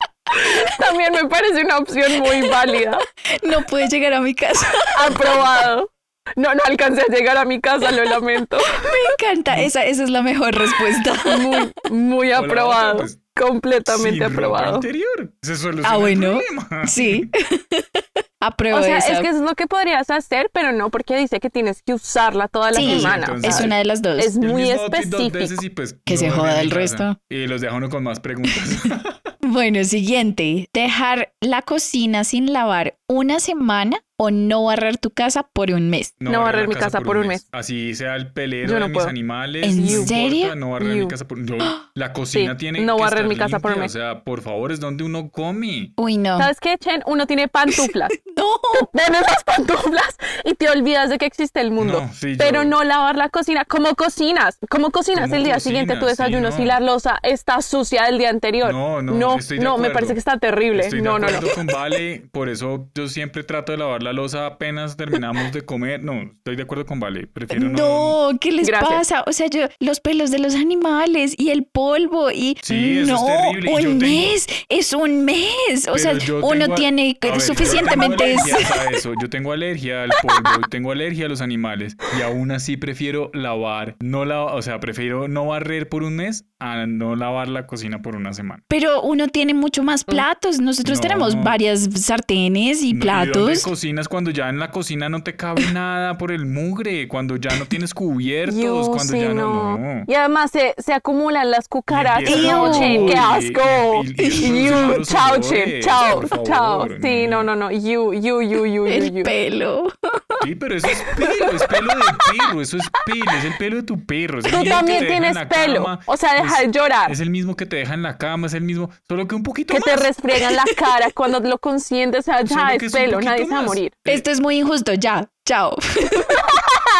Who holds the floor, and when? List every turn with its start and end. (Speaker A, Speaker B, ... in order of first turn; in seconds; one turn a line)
Speaker A: 0.3-3.0
Speaker B: 3.3-5.3
Speaker A: 4.9-9.0
Speaker B: 8.8-11.6
Speaker A: 11.2-14.9
Speaker C: 12.3-13.2
Speaker C: 13.8-17.3
Speaker B: 15.8-19.3
Speaker A: 18.7-25.6
Speaker B: 22.7-24.3
Speaker C: 22.8-23.8
Speaker C: 24.4-29.3
Speaker B: 26.1-27.2
Speaker B: 29.4-36.2
Speaker C: 36.2-45.9
Speaker A: 36.3-37.4
Speaker A: 38.6-39.1
Speaker B: 39.6-40.5
Speaker A: 39.7-40.2
Speaker A: 40.8-41.1
Speaker A: 42.3-43.9
Speaker B: 46.0-46.5
Speaker A: 46.4-48.1
Speaker B: 47.7-48.9
Speaker A: 48.7-61.6
Speaker C: 51.8-52.8
Speaker C: 55.1-56.8
Speaker C: 58.6-60.2
Speaker C: 60.7-68.2
Speaker B: 67.5-79.0
Speaker A: 68.6-69.0
Speaker C: 72.6-74.3
Speaker C: 75.9-88.6
Speaker B: 88.7-93.7
Speaker C: 90.8-91.6
Speaker C: 92.9-100.1
Speaker A: 98.5-109.3
Speaker C: 101.9-107.5
Speaker B: 102.2-103.2
Speaker B: 104.2-104.8
Speaker B: 108.9-110.4
Speaker C: 110.4-120.1
Speaker A: 114.5-117.2
Speaker A: 119.7-123.9
Speaker C: 122.5-124.2
Speaker B: 124.0-126.5